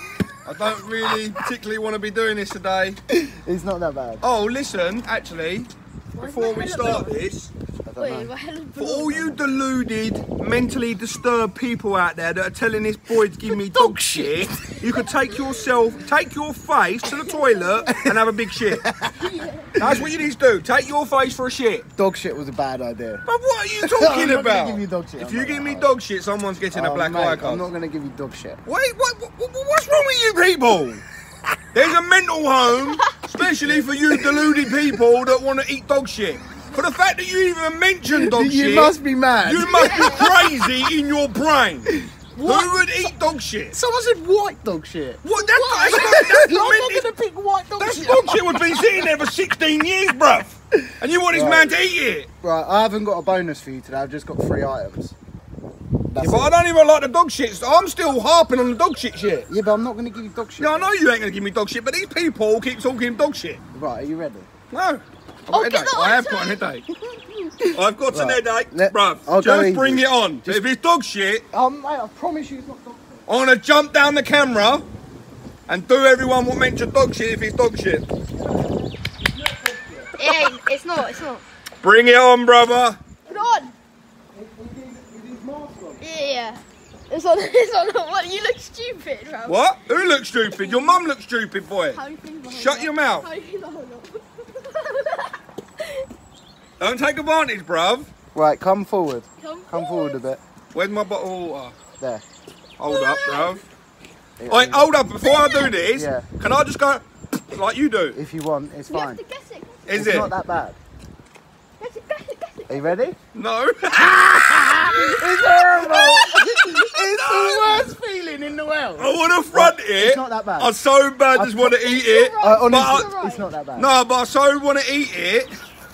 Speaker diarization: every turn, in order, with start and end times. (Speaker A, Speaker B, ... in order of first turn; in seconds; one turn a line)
Speaker A: 0.5-3.0
Speaker B: 3.1-4.2
Speaker A: 4.2-7.5
Speaker C: 6.1-7.2
Speaker B: 7.9-8.3
Speaker C: 8.0-9.4
Speaker A: 8.8-18.9
Speaker B: 13.5-14.5
Speaker C: 15.0-15.8
Speaker C: 17.1-17.9
Speaker B: 17.9-18.2
Speaker B: 18.7-20.0
Speaker C: 19.2-19.7
Speaker A: 19.8-21.9
Speaker B: 21.9-23.2
Speaker A: 23.3-27.7
Speaker B: 23.8-25.9
Speaker B: 26.7-28.6
Speaker A: 28.7-31.0
Speaker A: 31.7-43.8
Speaker B: 33.6-34.7
Speaker B: 38.0-40.5
Speaker C: 39.7-40.4
Speaker B: 41.9-42.7
Speaker B: 43.7-45.2
Speaker A: 45.2-47.1
Speaker C: 45.3-46.2
Speaker B: 45.9-49.1
Speaker A: 47.8-52.3
Speaker B: 51.3-51.7
Speaker B: 52.4-55.1
Speaker B: 56.1-56.6
Speaker A: 56.2-59.5
Speaker B: 59.5-60.9
Speaker A: 60.6-63.6
Speaker B: 63.7-64.5
Speaker A: 64.7-66.8
Speaker C: 65.5-66.7
Speaker B: 67.6-70.7
Speaker A: 67.7-71.5
Speaker B: 71.5-73.2
Speaker A: 73.3-74.8
Speaker A: 75.7-78.1
Speaker B: 78.5-80.5
Speaker C: 80.2-81.4
Speaker A: 81.8-83.0
Speaker C: 83.3-83.7
Speaker B: 84.3-86.0
Speaker C: 86.0-91.0
Speaker A: 89.5-93.3
Speaker C: 91.9-96.1
Speaker A: 96.8-98.1
Speaker B: 98.3-100.4
Speaker C: 99.4-100.2
Speaker A: 100.7-101.8
Speaker A: 102.8-103.6
Speaker C: 102.9-103.6
Speaker B: 104.4-104.9
Speaker A: 104.5-108.2
Speaker C: 105.2-105.7
Speaker B: 105.9-106.3
Speaker B: 108.1-109.2
Speaker C: 108.9-110.0
Speaker A: 109.9-110.3
Speaker B: 109.9-110.8
Speaker C: 111.8-112.9
Speaker B: 112.7-113.2
Speaker A: 113.3-115.0
Speaker B: 114.6-120.8
Speaker C: 114.8-116.8
Speaker A: 116.9-117.9
Speaker A: 119.0-123.1
Speaker B: 121.3-121.8
Speaker C: 121.7-123.5
Speaker B: 122.4-123.9
Speaker A: 123.8-125.5